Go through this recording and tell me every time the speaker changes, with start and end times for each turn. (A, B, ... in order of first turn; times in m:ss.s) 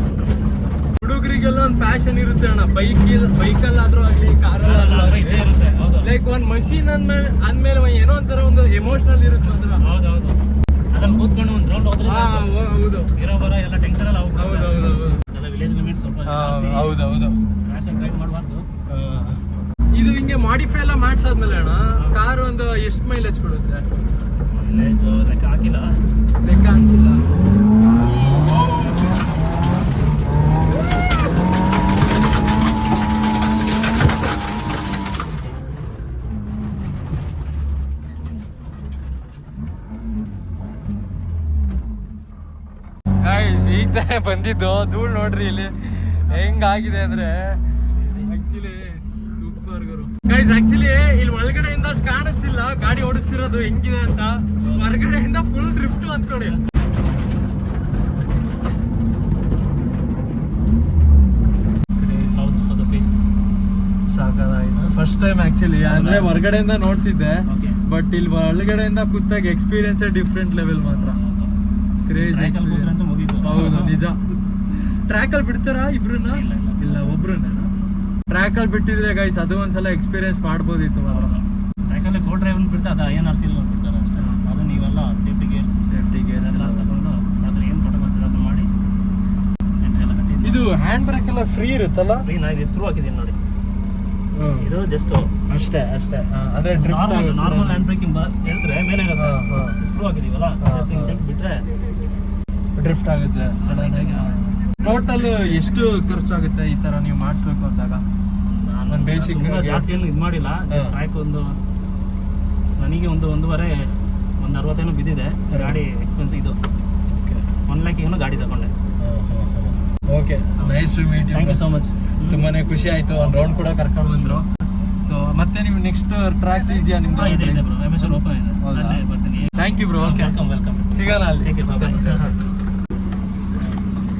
0:01.0-0:05.5 A
0:04.6-0:06.1 B
0:06.0-0:09.8 A
0:09.8-0:10.4 B
0:10.9-0:12.5 B
0:12.0-0:13.1 A
0:13.2-0:17.0 B
0:14.4-0:15.2 A
0:16.2-0:17.4 A
0:17.6-0:18.7 B
0:18.9-0:19.4 A
0:19.9-0:23.9 A
0:24.5-0:26.0 B
0:26.4-0:27.2 A
0:27.8-0:29.2 A
0:43.2-0:56.6 A
0:54.6-0:54.9 B
1:02.0-1:02.4 A
1:02.3-1:03.1 B
1:04.1-1:11.2 A
1:05.8-1:06.4 B
1:07.5-1:07.8 B
1:10.9-1:11.6 B
1:12.0-1:17.7 A
1:12.2-1:14.0 B
1:16.3-1:17.4 B
1:18.3-1:21.3 A
1:21.0-1:25.8 B
1:24.2-1:24.4 A
1:25.8-1:26.9 A
1:26.4-1:28.7 B
1:29.8-1:30.6 B
1:30.4-1:32.2 A
1:32.2-1:33.4 B
1:34.3-1:34.7 A
1:34.6-1:35.3 B
1:35.5-1:37.9 A
1:36.7-1:41.6 B
1:39.1-1:39.8 A
1:40.6-1:41.2 A
1:42.8-1:48.0 A
1:43.6-1:44.3 B
1:48.5-1:51.5 B
1:48.9-1:49.9 A
1:50.7-1:51.0 A
1:52.8-1:56.6 B
1:55.5-1:55.8 A
1:57.7-1:58.7 B
1:59.0-2:01.6 A
2:00.6-2:02.5 B
2:02.2-2:04.4 A
2:03.2-2:03.7 B
2:05.0-2:09.0 A
2:07.1-2:10.9 B
2:09.5-2:10.4 A
2:10.9-2:12.3 A
2:11.4-2:12.3 B